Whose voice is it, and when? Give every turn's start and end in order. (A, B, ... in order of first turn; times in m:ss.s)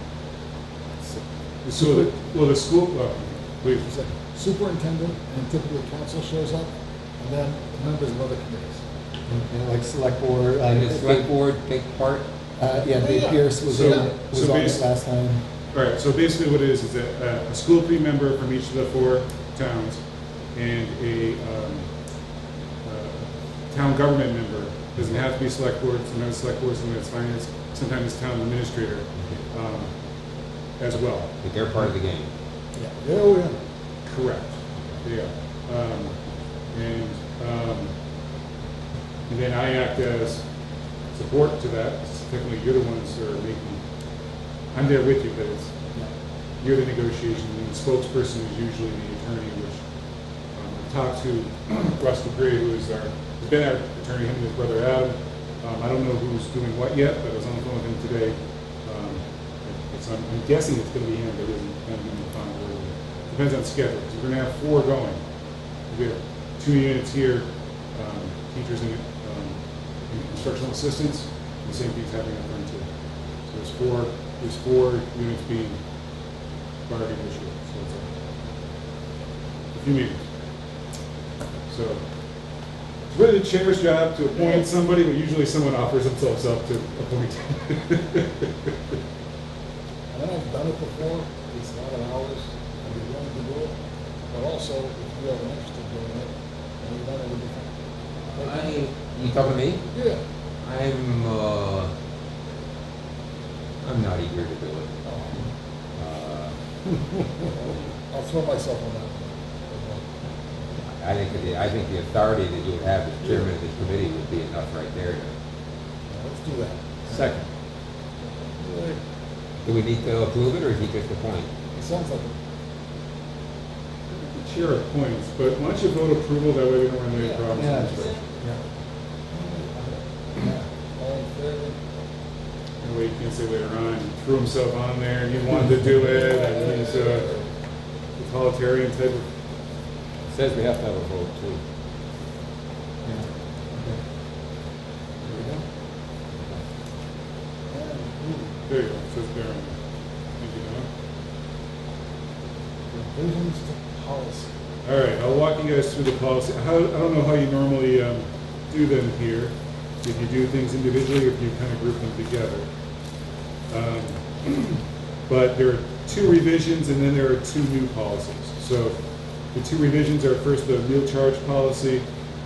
0:01.6-0:03.9 A
0:03.8-0:08.8 B
0:09.3-0:11.3 C
0:10.7-0:12.3 D
0:12.6-0:15.4 C
0:13.0-0:14.1 B
0:13.6-0:14.9 A
0:15.7-0:20.0 A
0:20.6-0:21.9 A
0:22.8-0:29.9 A
0:30.8-0:31.4 A
0:31.4-0:32.3 D
0:33.0-0:33.5 B
0:34.0-0:36.1 A
0:36.7-0:37.9 A
0:39.3-0:40.4 A
0:41.1-0:43.8 A
0:44.7-0:45.9 A
0:46.6-0:49.8 A
0:50.6-1:05.2 A
1:05.9-1:12.9 A
1:13.5-1:15.8 A
1:16.9-1:18.1 A
1:19.7-1:20.2 A
1:21.7-1:22.0 A
1:23.1-1:28.7 A
1:30.1-1:33.7 B
1:34.3-1:37.7 B
1:38.2-1:39.8 D
1:39.9-1:40.2 B
1:40.6-1:41.9 D
1:43.8-1:44.9 D
1:45.1-1:45.4 B
1:46.0-1:46.6 D
1:48.1-1:50.0 B
1:51.0-1:55.3 D
1:56.1-1:57.3 B
1:57.1-1:57.4 C
1:58.5-1:59.0 B
1:59.6-2:01.5 D
2:01.8-2:02.3 B
2:04.1-2:08.1 A
2:07.2-2:07.5 B
2:07.5-2:08.6 C
2:09.3-2:11.8 B
2:12.8-2:17.4 A
2:15.7-2:16.3 C
2:16.2-2:17.4 B
2:18.2-2:19.3 A
2:20.3-2:21.6 D
2:23.1-2:24.0 C
2:25.3-2:25.6 C
2:27.7-2:28.6 B
2:28.6-2:29.8 A
2:30.4-2:30.9 A
2:32.9-2:34.5 B
2:34.8-2:42.7 A
2:43.7-2:49.0 A
2:49.5-2:52.1 A